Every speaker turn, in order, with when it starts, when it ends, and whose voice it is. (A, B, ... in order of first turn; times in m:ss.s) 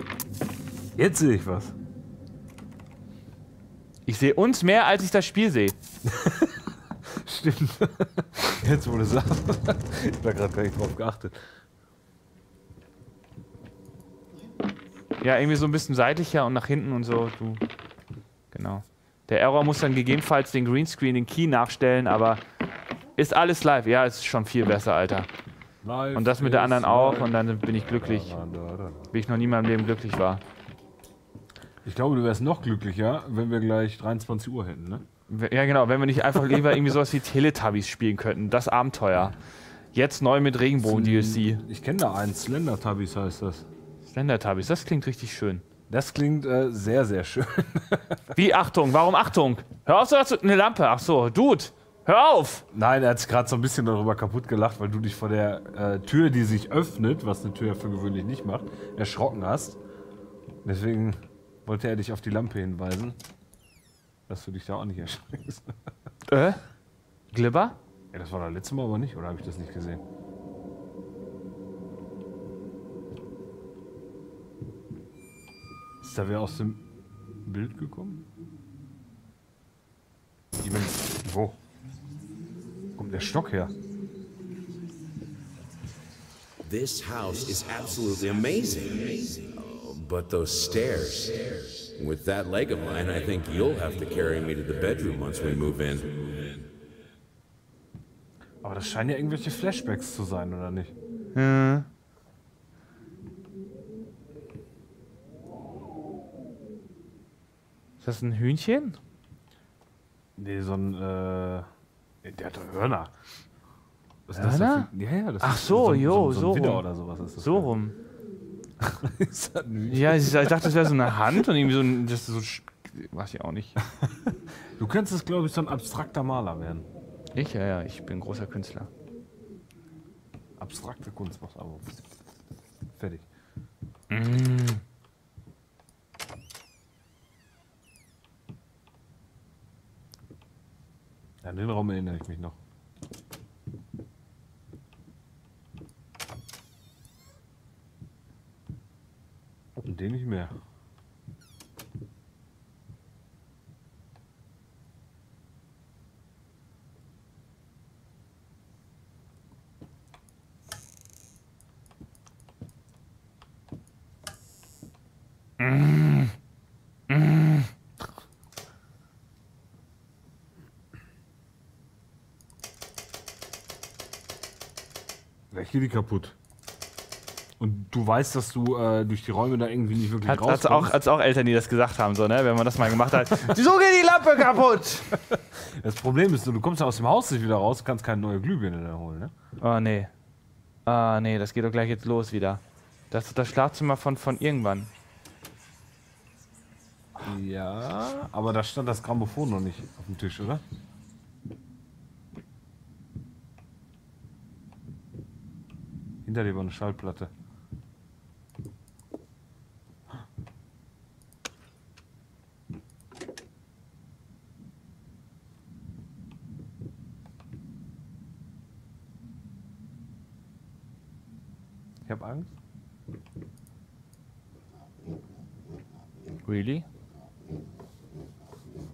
0:01.0-0:01.7 A
0:04.1-0:05.8 B
0:06.0-0:11.4 A
0:15.2-0:17.6 B
0:18.5-0:22.4 B
0:23.2-0:25.3 B
0:25.8-0:29.1 A
0:26.1-0:28.4 B
0:29.1-0:30.4 B
0:31.8-0:35.0 A
0:35.3-0:39.4 B
0:39.9-0:41.6 B
0:40.8-0:43.7 A
0:44.0-0:45.6 B
0:45.9-0:48.3 A
0:48.4-0:52.6 B
0:52.7-0:59.8 A
1:00.6-1:03.2 A
1:04.3-1:05.7 A
1:06.3-1:06.6 B
1:07.3-1:07.8 B
1:08.1-1:10.0 A
1:16.0-1:16.8 A
1:17.4-1:18.2 A
1:20.6-1:21.6 A
1:23.0-1:23.7 A
1:26.6-1:36.6 C
1:38.6-1:40.9 A
1:41.3-1:41.9 B
1:48.0-1:49.0 B
1:50.4-1:51.7 A
1:52.2-1:53.1 A
1:54.3-1:57.7 A
1:54.4-1:56.8 B
1:57.4-1:58.0 B
1:58.8-2:01.5 A
1:59.9-2:03.8 B
2:04.8-2:06.9 A
2:07.4-2:08.9 B
2:10.6-2:12.0 A
2:13.0-2:13.3 A
2:14.1-2:14.8 B
2:21.4-2:22.6 A
2:29.8-2:30.5 A
2:45.6-2:46.4 B
2:47.1-2:47.7 B
2:55.5-2:56.4 A
2:57.6-3:00.9 A
3:00.2-3:05.2 B
3:03.3-3:03.6 A
3:05.1-3:09.3 A
3:09.6-3:10.1 B
3:10.9-3:14.9 B
3:17.2-3:20.6 A
3:26.2-3:27.3 A
3:42.1-3:42.5 A
3:46.4-3:46.9 B